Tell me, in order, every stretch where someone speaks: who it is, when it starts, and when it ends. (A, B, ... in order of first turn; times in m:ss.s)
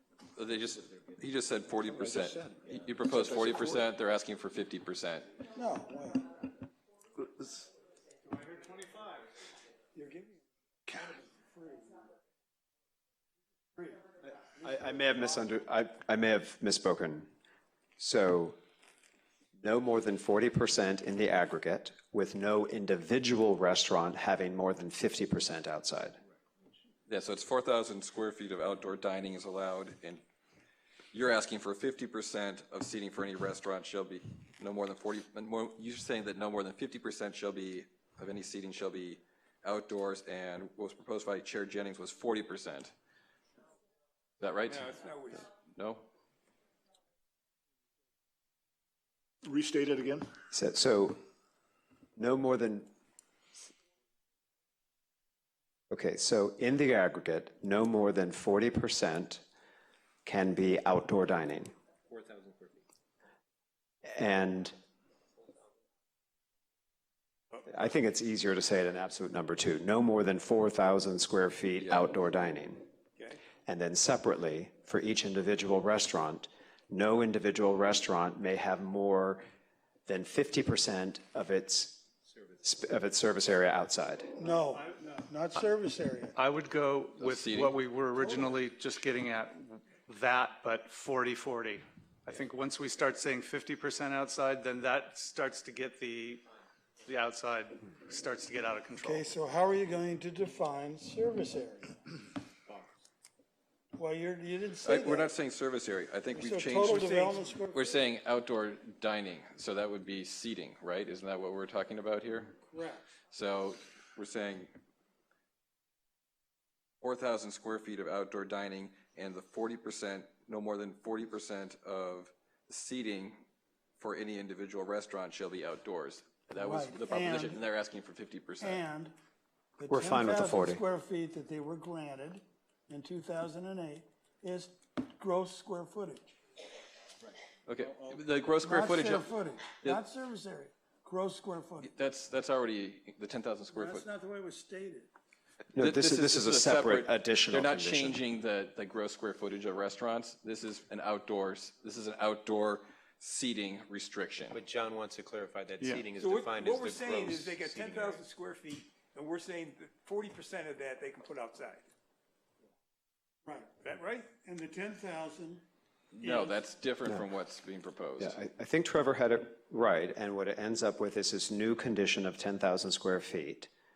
0:00.4-0:05.4 A
0:02.0-0:03.8 B
0:05.5-0:06.4 C
0:07.2-0:07.7 B
0:09.9-0:12.1 C
0:14.6-0:17.3 D
0:18.0-0:18.6 D
0:19.6-0:26.2 D
0:27.1-0:30.2 A
0:31.1-0:42.9 A
0:44.4-0:45.0 A
0:44.7-0:45.4 E
0:45.8-0:46.0 A
0:49.4-0:50.3 B
0:50.5-0:51.2 D
0:52.2-0:52.9 D
0:55.9-0:59.4 D
1:00.2-1:01.7 D
1:02.1-1:02.8 F
1:04.0-1:04.8 D
1:07.7-1:12.8 D
1:13.7-1:19.4 D
1:20.1-1:22.1 D
1:22.6-1:24.4 D
1:24.4-1:26.4 C
1:24.4-1:24.8 G
1:26.4-1:36.4 G
1:27.2-1:27.8 A
1:37.0-1:39.3 G
1:39.0-1:42.1 C
1:44.0-1:45.3 C
1:44.8-1:47.1 A
1:46.3-1:47.9 C
1:46.9-1:47.5 E
1:47.7-1:52.6 A
1:52.7-1:53.0 C
1:53.3-1:54.7 A
1:57.0-2:03.4 A
2:04.0-2:08.8 A
2:06.5-2:07.6 C
2:08.6-2:09.1 C
2:09.8-2:16.3 C
2:09.9-2:10.8 D
2:17.7-2:20.0 A
2:18.6-2:21.9 C
2:21.8-2:24.0 A
2:23.7-2:25.1 C
2:25.7-2:28.2 D
2:25.8-2:34.6 A
2:34.5-2:38.2 F
2:36.2-2:41.9 E
2:43.4-2:43.8 C
2:43.8-2:44.3 E
2:44.3-2:45.6 C
2:46.2-2:48.4 A
2:46.2-2:46.5 C
2:48.2-2:53.7 D